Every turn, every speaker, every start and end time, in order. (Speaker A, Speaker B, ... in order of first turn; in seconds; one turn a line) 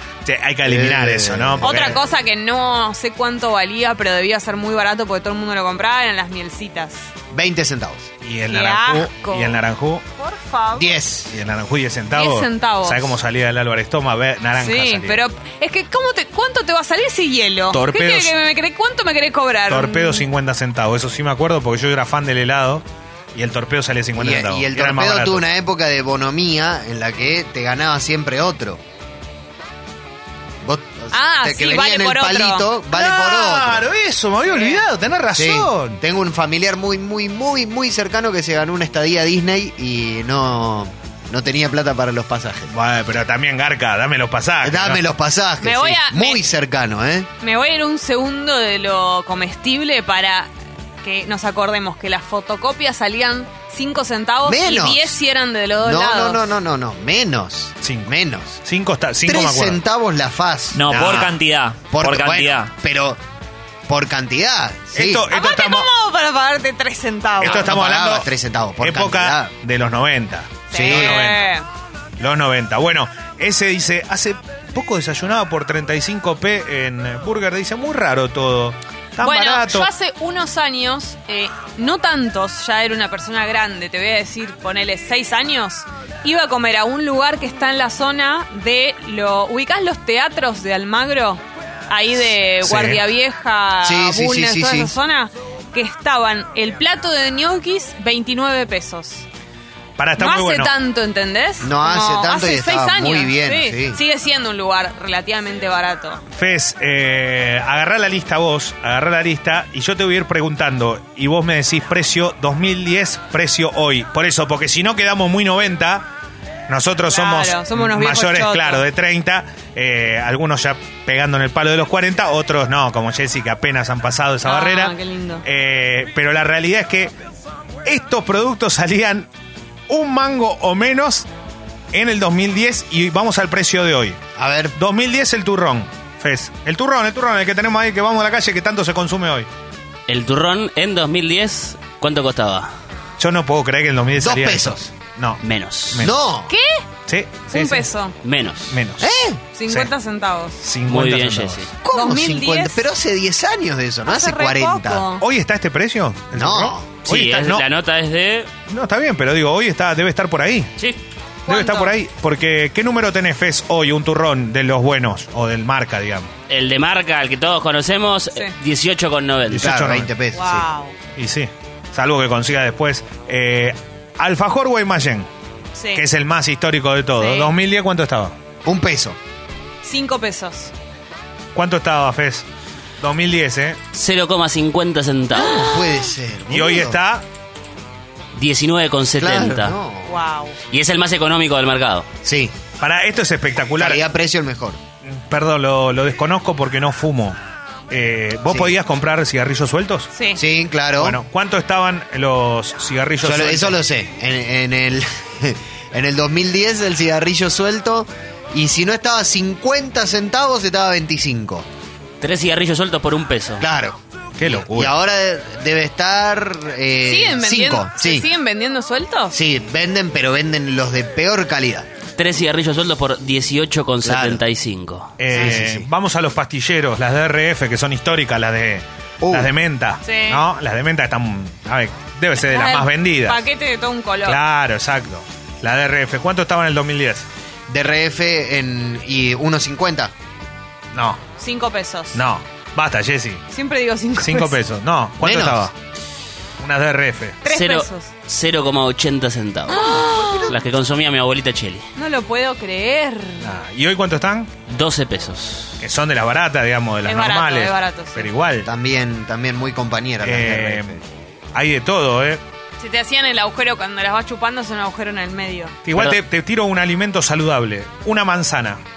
Speaker A: 0.2-2.0
Speaker B: 0.7-2.0
Speaker C: 1.6-7.1
Speaker B: 7.3-8.1
Speaker A: 8.2-10.0
Speaker C: 8.5-9.6
Speaker C: 10.2-11.0
Speaker B: 10.8-11.3
Speaker A: 11.3-15.2
Speaker C: 12.1-13.1
Speaker C: 14.6-20.3
Speaker A: 17.7-18.3
Speaker A: 19.7-22.8
Speaker A: 23.4-25.4
Speaker B: 24.2-28.8
Speaker B: 30.6-33.9
Speaker C: 31.1-32.7
Speaker A: 32.9-36.0
Speaker B: 35.4-42.7
Speaker A: 42.7-45.0
Speaker B: 44.6-47.3
Speaker C: 45.6-46.4
Speaker C: 47.4-50.5
Speaker C: 51.0-56.4
Speaker B: 54.5-55.2
Speaker B: 55.8-58.6
Speaker A: 57.8-58.1
Speaker A: 58.6-59.8
Speaker B: 59.2-61.3
Speaker D: 60.7-62.7
Speaker A: 60.9-61.3
Speaker B: 61.9-63.2
Speaker B: 63.9-65.3
Speaker A: 64.9-65.9
Speaker C: 65.3-67.8
Speaker A: 67.4-68.3
Speaker B: 67.4-69.5
Speaker A: 68.8-71.5
Speaker C: 70.7-71.7
Speaker B: 70.7-71.2
Speaker A: 72.2-79.9
Speaker C: 79.2-99.3
Speaker A: 92.6-93.0
Speaker B: 93.8-94.9
Speaker A: 100.0-100.7
Speaker C: 100.2-106.2
Speaker B: 101.6-104.0
Speaker A: 106.3-116.1
Speaker A: 116.7-127.1
Speaker C: 117.1-118.8
Speaker C: 124.4-125.4
Speaker A: 127.8-129.3
Speaker A: 129.9-131.3
Speaker A: 131.9-134.2
Speaker B: 134.4-134.8
Speaker A: 134.8-139.5
Speaker E: 140.1-142.7
Speaker A: 143.2-146.1
Speaker B: 144.2-144.9
Speaker E: 145.4-146.1
Speaker B: 146.0-146.5
Speaker C: 146.5-146.8
Speaker A: 147.1-147.9
Speaker C: 147.5-148.2
Speaker E: 148.2-148.8
Speaker A: 148.7-149.9
Speaker B: 149.0-149.4
Speaker C: 149.6-150.6
Speaker A: 150.6-151.7
Speaker E: 150.9-151.7
Speaker B: 151.8-155.1
Speaker C: 151.9-152.8
Speaker C: 154.1-155.2
Speaker A: 155.2-157.7
Speaker B: 156.3-156.9
Speaker E: 157.1-158.5
Speaker A: 158.7-160.8
Speaker C: 161.5-161.9
Speaker A: 161.5-166.3
Speaker E: 166.5-169.7
Speaker A: 169.5-170.1
Speaker B: 169.6-170.7
Speaker C: 170.3-170.9
Speaker A: 171.2-175.3
Speaker C: 175.8-176.0
Speaker A: 175.9-178.3
Speaker C: 177.2-177.5
Speaker B: 178.6-179.2
Speaker C: 179.8-180.7
Speaker A: 181.6-182.4
Speaker A: 183.0-183.8
Speaker E: 183.9-185.9
Speaker B: 185.3-187.0
Speaker A: 186.5-187.2
Speaker E: 188.3-189.8
Speaker B: 189.2-190.2
Speaker C: 190.1-190.6
Speaker E: 190.7-192.1
Speaker B: 192.2-192.6
Speaker A: 192.8-194.0
Speaker B: 193.8-194.8
Speaker A: 195.1-197.4
Speaker A: 197.9-200.1
Speaker B: 198.5-198.8
Speaker C: 200.1-200.4
Speaker B: 200.4-201.2
Speaker A: 201.0-203.8
Speaker B: 203.2-211.7
Speaker E: 212.2-213.7
Speaker B: 213.6-218.3
Speaker A: 214.4-214.9
Speaker C: 217.1-219.4
Speaker B: 219.3-221.9
Speaker E: 222.2-225.1
Speaker B: 224.0-224.4
Speaker A: 225.2-233.4
Speaker B: 225.3-225.9
Speaker B: 229.2-229.5
Speaker C: 230.0-230.4
Speaker C: 232.4-234.4
Speaker A: 234.2-237.3
Speaker B: 237.7-240.1
Speaker A: 240.9-241.2
Speaker C: 241.4-242.2
Speaker A: 242.1-243.4
Speaker C: 243.5-244.6
Speaker A: 244.2-245.7
Speaker B: 245.2-245.7
Speaker A: 246.6-247.4
Speaker C: 247.4-248.1
Speaker E: 247.4-251.9
Speaker C: 249.7-250.5
Speaker B: 249.7-250.6
Speaker C: 252.0-253.5
Speaker A: 253.4-254.5
Speaker E: 254.7-255.8
Speaker A: 255.8-258.7
Speaker C: 257.1-258.3
Speaker B: 258.6-261.0
Speaker A: 260.2-261.0
Speaker A: 261.5-262.4
Speaker C: 262.8-265.8
Speaker A: 265.9-268.8